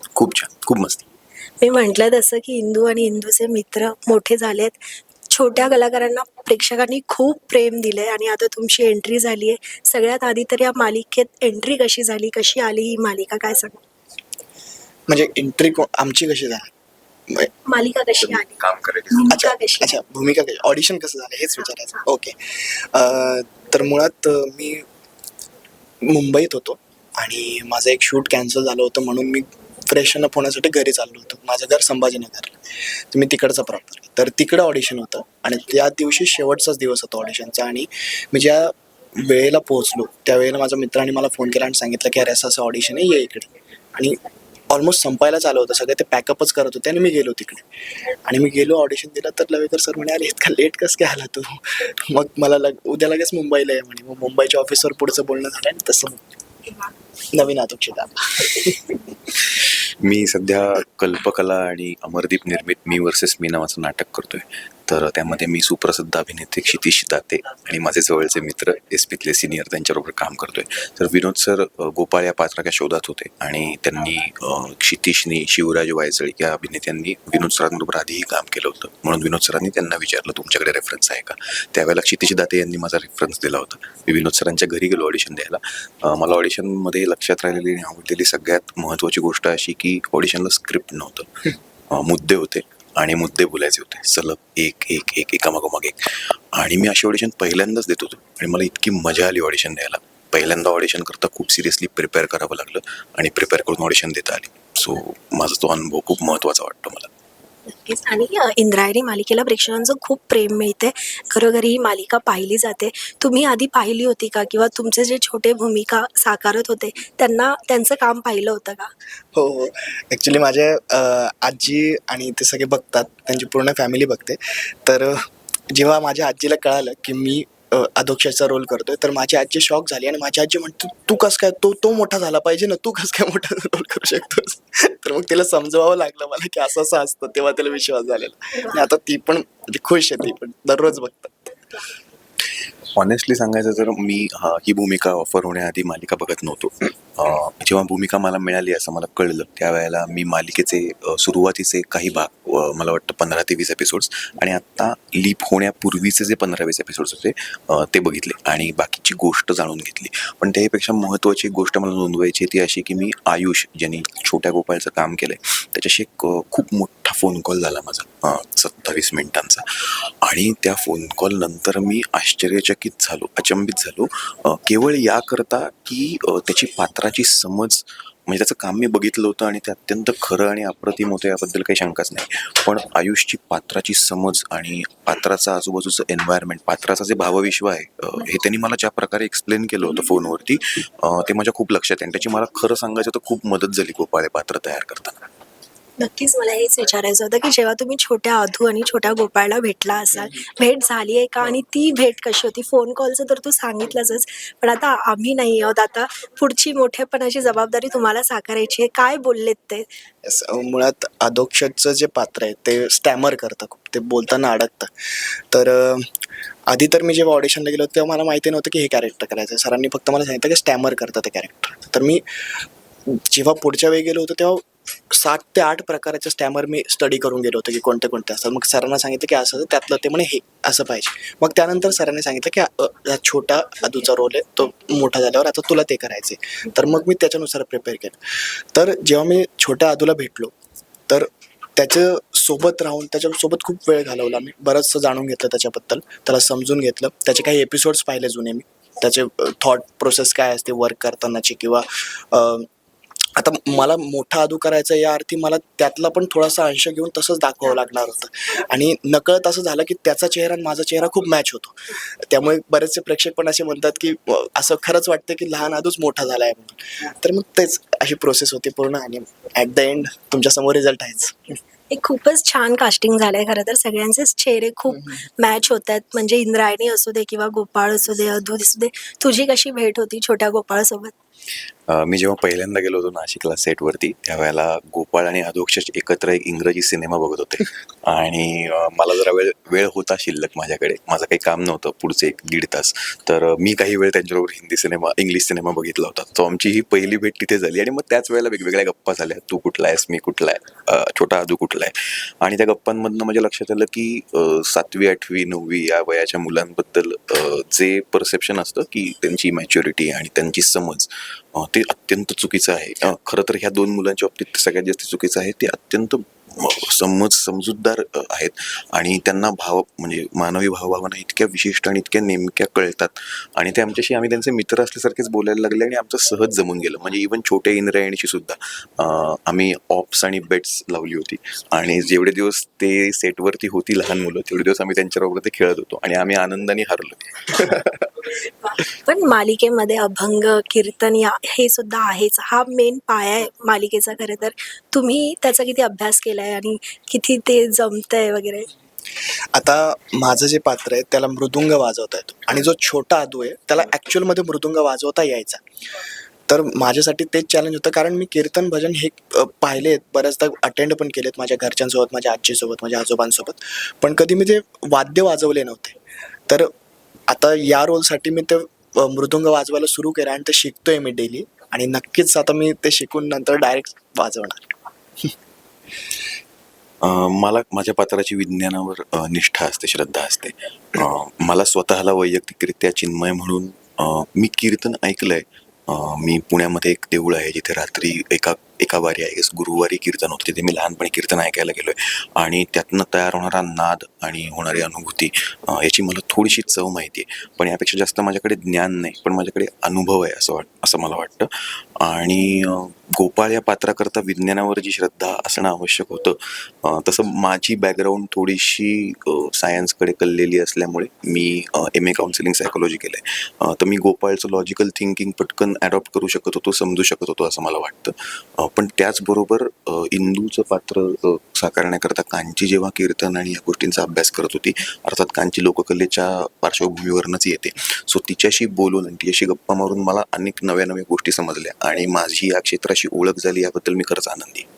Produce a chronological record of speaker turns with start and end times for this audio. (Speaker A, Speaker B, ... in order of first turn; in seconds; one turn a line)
Speaker A: 0.1-1.1
Speaker B: 1.6-4.8
Speaker B: 5.3-13.8
Speaker C: 15.1-16.7
Speaker B: 17.7-18.6
Speaker A: 18.3-19.4
Speaker B: 19.1-20.0
Speaker C: 19.3-22.4
Speaker C: 22.9-24.9
Speaker C: 26.0-32.6
Speaker C: 33.1-44.2
Speaker C: 44.7-47.6
Speaker C: 48.2-56.2
Speaker C: 57.3-58.9
Speaker A: 59.5-107.1
Speaker B: 107.7-118.9
Speaker C: 119.3-141.5
Speaker A: 142.9-169.6
Speaker A: 170.2-195.2
Speaker B: 196.0-209.8
Speaker C: 210.2-214.9
Speaker C: 215.5-216.1
Speaker C: 216.7-222.2
Speaker C: 223.1-238.2
Speaker C: 238.7-240.5
Speaker C: 241.1-252.7
Speaker C: 253.3-271.6
Speaker B: 271.9-281.1
Speaker A: 281.9-338.1
Speaker B: 338.6-348.7
Speaker C: 349.5-355.6
Speaker C: 356.5-365.9
Speaker C: 367.3-374.7
Speaker A: 377.0-434.6